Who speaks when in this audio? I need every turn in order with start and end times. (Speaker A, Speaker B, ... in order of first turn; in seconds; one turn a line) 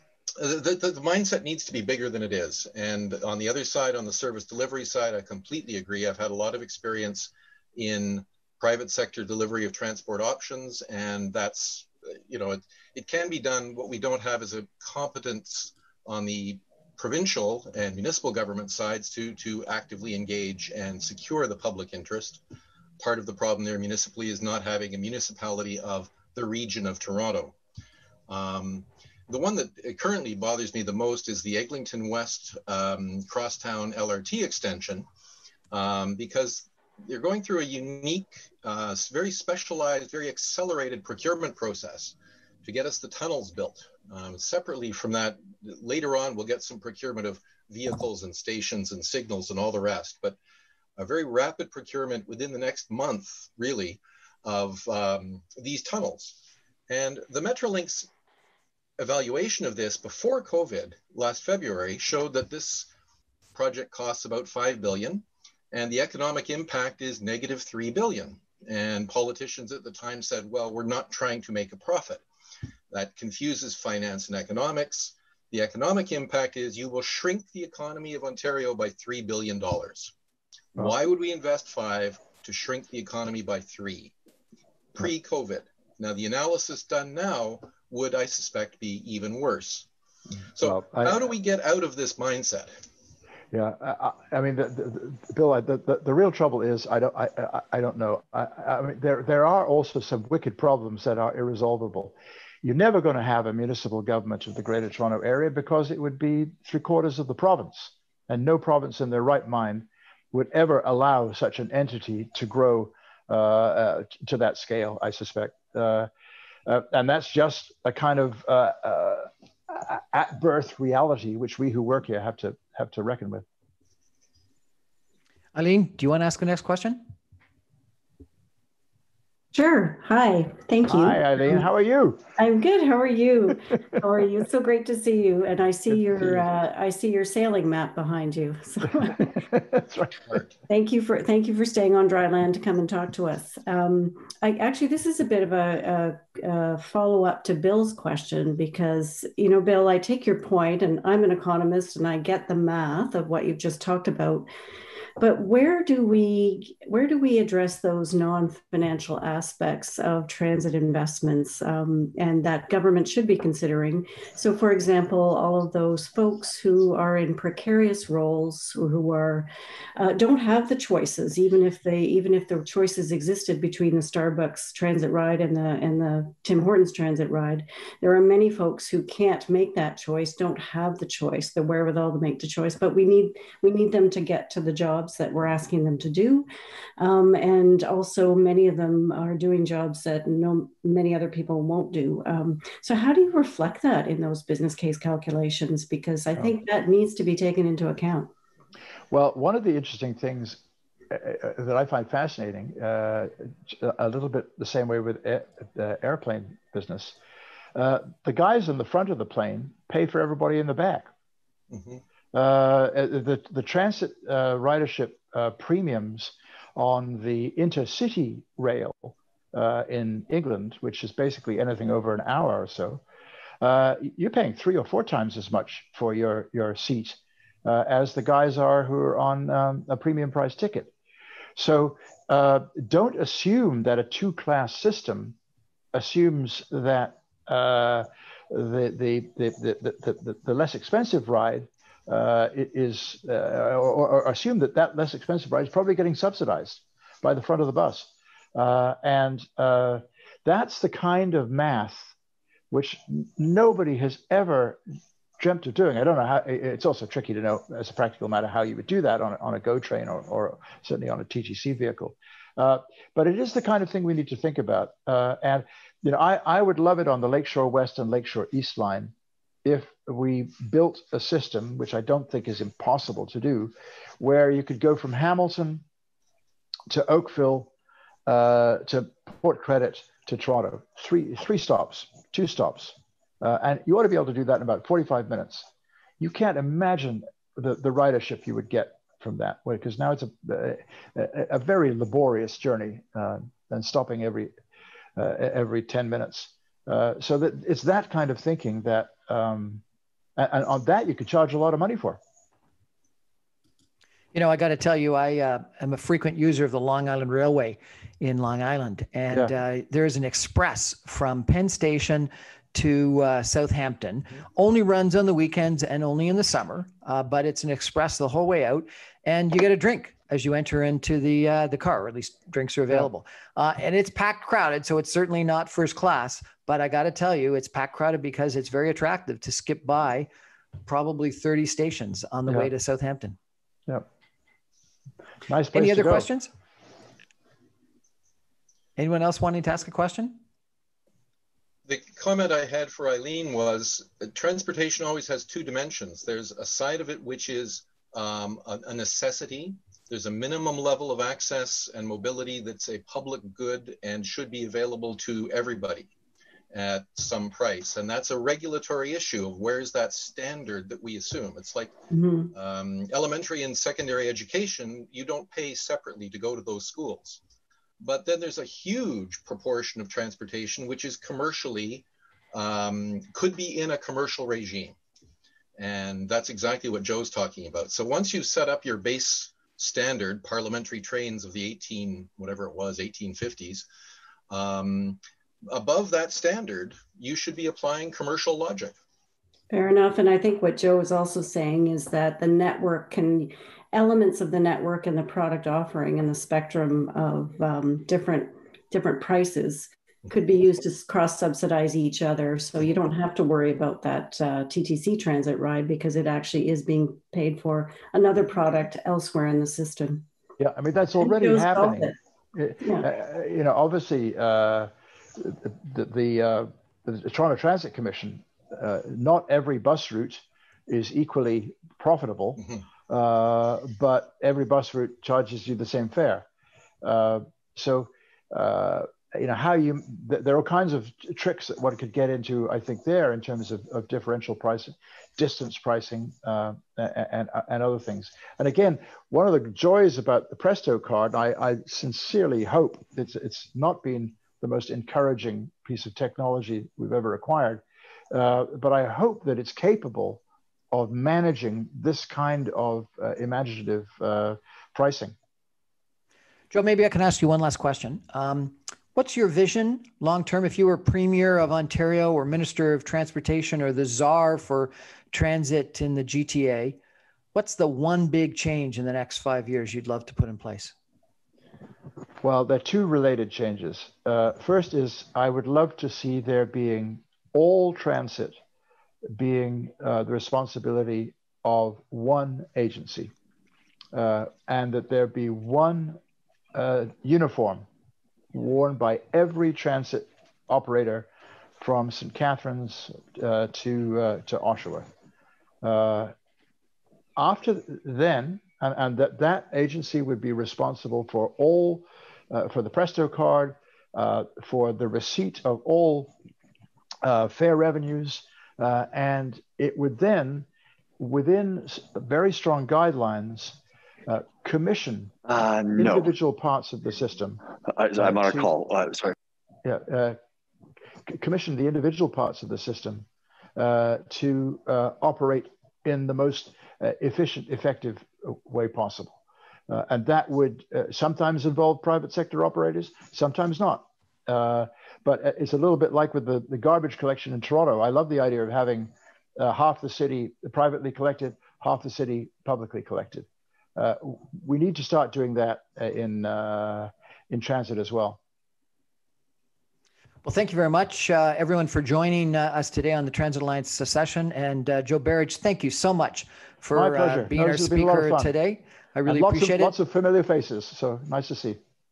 Speaker A: 0.4-22.4
Speaker A: 23.0-27.6
Speaker A: 28.3-35.1
Speaker A: 35.7-50.4
Speaker A: 51.0-58.1
Speaker A: 59.0-62.9
Speaker A: 63.5-72.2
Speaker A: 72.9-80.1
Speaker A: 80.8-84.1
Speaker A: 84.9-89.9
Speaker A: 90.5-92.7
Speaker B: 90.6-91.3
Speaker B: 93.5-116.1
Speaker B: 116.7-123.4
Speaker C: 125.5-127.1
Speaker D: 129.5-131.6
Speaker B: 130.9-132.2
Speaker D: 132.4-139.3
Speaker B: 139.2-140.4
Speaker D: 140.7-154.5
Speaker D: 155.2-186.5
Speaker D: 187.0-198.3
Speaker B: 199.1-207.2
Speaker B: 207.7-211.1
Speaker A: 211.7-212.0
Speaker B: 212.3-223.0
Speaker B: 223.6-230.9
Speaker B: 231.6-235.3
Speaker B: 235.9-252.1
Speaker B: 252.7-254.8
Speaker B: 255.4-269.1
Speaker B: 269.6-275.8
Speaker B: 276.9-277.7
Speaker B: 278.2-285.7
Speaker B: 286.2-294.5
Speaker B: 295.2-299.8
Speaker B: 300.4-302.2
Speaker C: 304.3-330.3
Speaker C: 330.8-333.4
Speaker B: 335.5-336.3
Speaker C: 335.7-336.5
Speaker C: 339.0-340.4
Speaker A: 341.9-356.1
Speaker A: 356.7-361.9
Speaker D: 362.1-362.5
Speaker A: 362.5-367.4
Speaker A: 368.0-374.9
Speaker A: 375.8-383.9
Speaker A: 384.5-388.9
Speaker D: 389.7-410.2
Speaker B: 410.6-426.5
Speaker D: 411.2-412.1
Speaker D: 412.8-413.1
Speaker A: 422.6-422.8
Speaker B: 427.0-455.3
Speaker C: 456.7-467.0
Speaker C: 467.5-470.9
Speaker B: 472.4-478.6
Speaker B: 479.3-483.3
Speaker B: 484.1-486.2
Speaker B: 486.7-487.9
Speaker B: 488.5-491.3
Speaker B: 491.8-495.1
Speaker B: 495.8-496.3
Speaker B: 497.4-506.3
Speaker B: 507.2-510.7
Speaker B: 511.2-515.4
Speaker E: 515.5-516.3
Speaker B: 516.0-517.6
Speaker E: 517.9-519.3
Speaker B: 518.2-518.7
Speaker B: 519.8-520.4
Speaker B: 521.3-548.4
Speaker C: 550.4-559.9
Speaker B: 556.9-558.5
Speaker B: 559.2-561.8